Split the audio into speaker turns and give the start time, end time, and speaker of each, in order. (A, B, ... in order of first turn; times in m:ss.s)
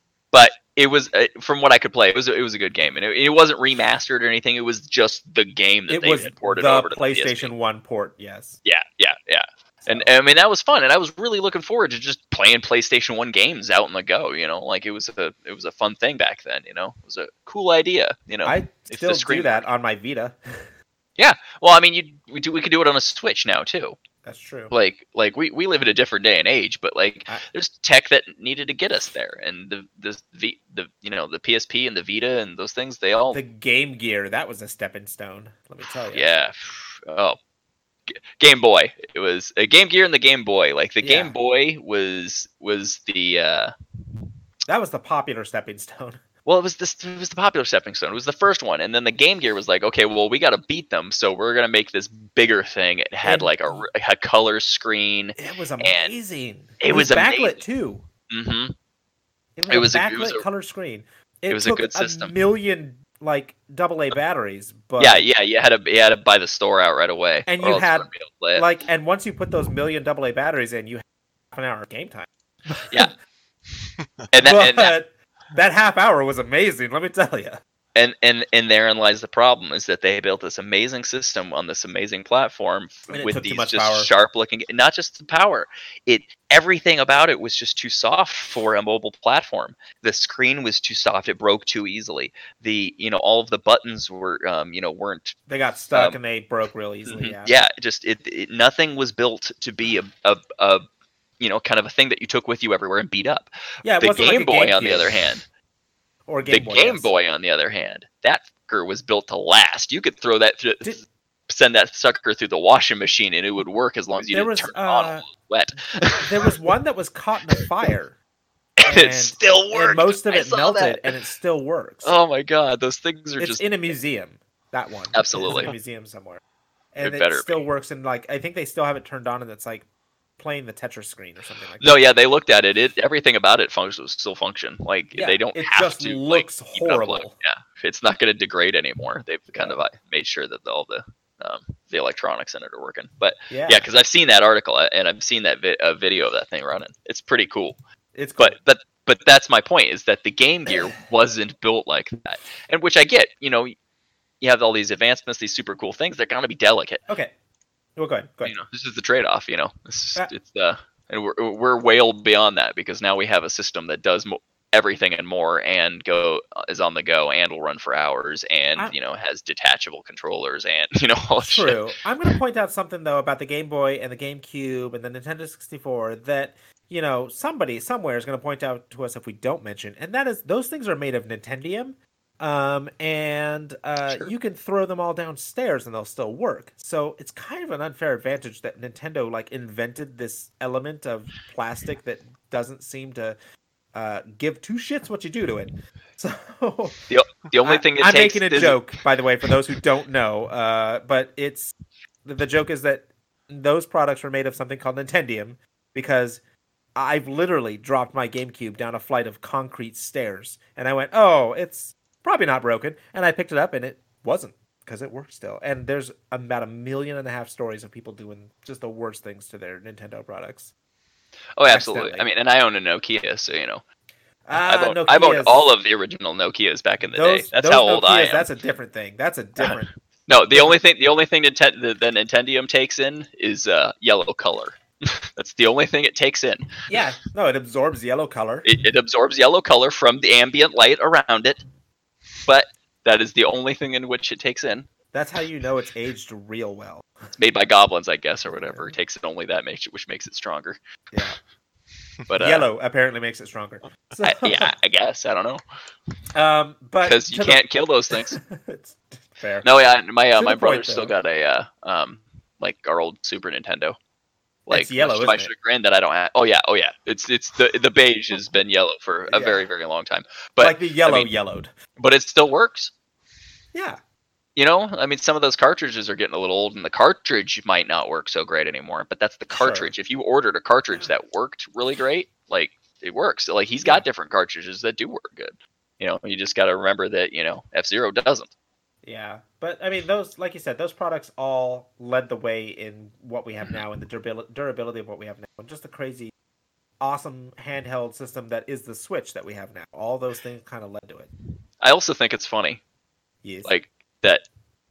0:00.3-0:07.5 A
0:05.9-0:08.6 B
0:08.6-0:19.7 A
0:09.8-0:10.1 B
0:18.4-0:20.7 B
0:21.2-0:24.0 A
0:24.2-0:24.7 B
0:24.7-0:33.4 A
0:33.3-0:36.3 B
0:36.1-0:37.4 A
0:38.1-0:43.7 A
0:41.0-0:41.3 B
0:44.7-0:46.2 B
0:46.4-0:56.1 A
0:53.2-0:53.9 B
0:55.4-0:58.0 B
0:56.8-0:57.6 A
0:58.3-0:58.7 A
0:59.6-1:05.2 B
0:59.7-1:00.4 A
1:01.5-1:02.3 A
1:05.0-1:08.6 A
1:07.4-1:13.1 B
1:14.3-1:14.9 A
1:14.4-1:17.6 B
1:18.0-1:35.4 A
1:23.1-1:24.1 B
1:35.5-1:37.5 B
1:35.9-1:36.2 A
1:37.1-1:40.8 A
1:41.4-1:45.4 A
1:43.8-1:45.4 B
1:46.3-1:47.1 B
1:46.4-1:56.5 A
1:54.3-1:55.3 B
1:56.2-1:58.2 B
1:58.8-2:01.1 A
1:58.8-2:02.1 B
2:02.0-2:03.9 A
2:03.4-2:06.4 B
2:05.1-2:05.7 A
2:06.9-2:09.9 B
2:07.0-2:07.6 A
2:10.4-2:12.0 B
2:11.8-2:27.8 A
2:15.1-2:17.4 B
2:19.5-2:19.8 B
2:23.5-2:23.9 B
2:28.1-2:28.6 B
2:28.4-2:33.7 A
2:34.4-2:37.0 A
2:37.1-2:37.3 B
2:38.0-2:38.6 B
2:38.4-2:52.3 A
2:51.4-3:13.4 B
3:04.0-3:04.3 A
3:13.9-3:17.1 B
3:17.1-3:18.8 A
3:17.6-3:26.4 B
3:26.9-3:40.7 B
3:41.6-3:43.8 A
3:41.7-3:42.3 B
3:44.4-3:45.7 B
3:44.6-3:48.5 A
3:47.0-3:49.9 B
3:49.6-3:56.8 A
3:50.5-3:50.8 B
3:56.9-3:58.7 B
3:58.6-4:01.6 A
4:02.4-4:04.9 A
4:05.1-4:07.3 B
4:07.4-4:10.8 A
4:08.5-4:09.0 B
4:11.1-4:11.4 B
4:12.3-4:12.7 A
4:12.4-4:14.7 B
4:14.2-4:15.6 A
4:16.3-4:19.7 B
4:17.0-4:18.4 A
4:19.6-4:24.0 A
4:20.4-4:21.1 B
4:24.7-4:31.3 A
4:24.7-4:25.5 B
4:29.3-4:29.7 B
4:30.6-4:31.7 B
4:32.0-4:32.9 A
4:33.7-4:34.0 B
4:34.6-4:48.5 A
4:39.5-4:39.9 B
4:49.0-4:56.3 B
4:57.0-5:01.3 B
5:01.8-5:02.8 A
5:03.4-5:03.7 B
5:03.6-5:04.4 A